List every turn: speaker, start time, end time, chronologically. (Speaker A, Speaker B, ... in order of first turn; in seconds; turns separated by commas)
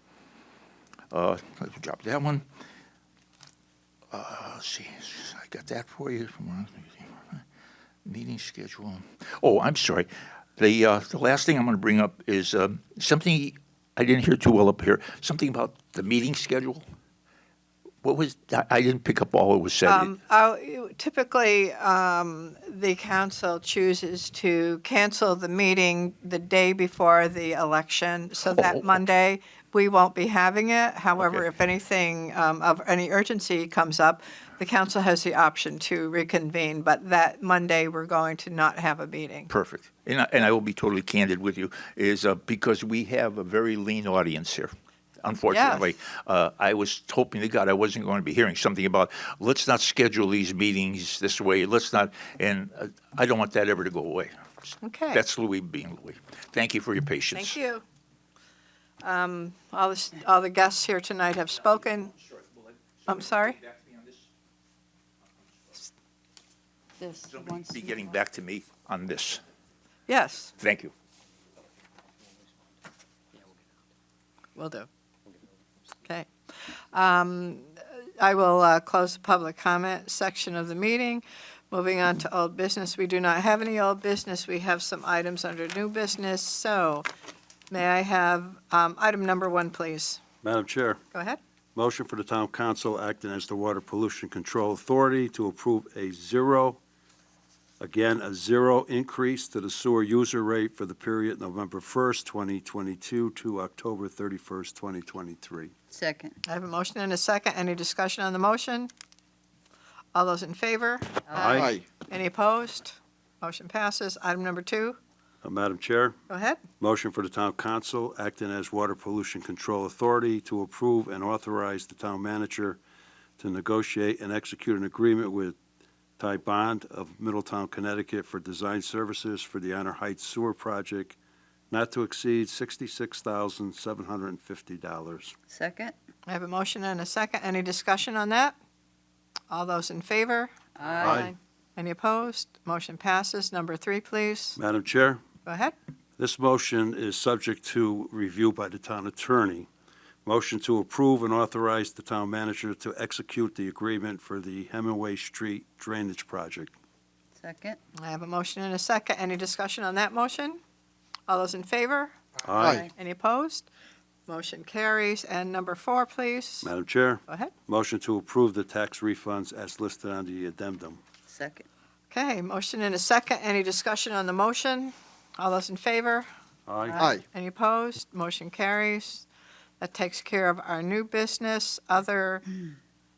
Speaker A: 1.1-2.4, Speaker A: 4.1-7.4, Speaker A: 8.1-16.8, Speaker A: 18.0-20.1, Speaker B: 19.9-39.5, Speaker A: 28.4-29.0, Speaker A: 31.2-31.5, Speaker A: 39.5-54.3, Speaker B: 45.5-45.9, Speaker B: 54.8-55.2, Speaker A: 55.1-57.6, Speaker B: 57.3-57.8, Speaker B: 59.0-62.1, Speaker A: 61.8-64.3, Speaker B: 63.1-63.6, Speaker A: 67.3-69.4, Speaker C: 67.5-67.8, Speaker B: 70.1-70.5, Speaker A: 70.6-70.9, Speaker B: 74.6-74.9, Speaker B: 76.9-87.1, Speaker B: 87.7-90.2, Speaker D: 90.4-91.0, Speaker B: 91.1-91.4, Speaker D: 91.8-96.8, Speaker D: 97.8-105.7, Speaker C: 105.9-106.4, Speaker B: 106.5-108.9, Speaker B: 110.1-115.0, Speaker D: 111.3-111.8, Speaker D: 115.4-116.2, Speaker B: 116.3-116.6, Speaker D: 116.8-122.8, Speaker D: 123.4-125.6, Speaker D: 126.2-131.2, Speaker D: 131.7-135.3, Speaker C: 135.5-135.9, Speaker B: 136.3-138.6, Speaker B: 139.5-140.5, Speaker C: 140.8-141.2, Speaker D: 141.0-141.3, Speaker B: 141.1-144.6, Speaker D: 144.6-145.2, Speaker B: 145.5-145.7, Speaker D: 146.2-149.7, Speaker D: 150.2-156.7, Speaker C: 157.4-157.8, Speaker B: 158.0-160.6, Speaker B: 161.3-162.2, Speaker D: 162.4-162.9, Speaker B: 162.8-163.7, Speaker B: 164.3-166.7, Speaker D: 166.6-171.0, Speaker B: 167.3-167.5, Speaker C: 171.3-171.7, Speaker B: 172.1-176.3, Speaker D: 176.7-177.2, Speaker B: 177.3-179.3, Speaker B: 179.8-182.5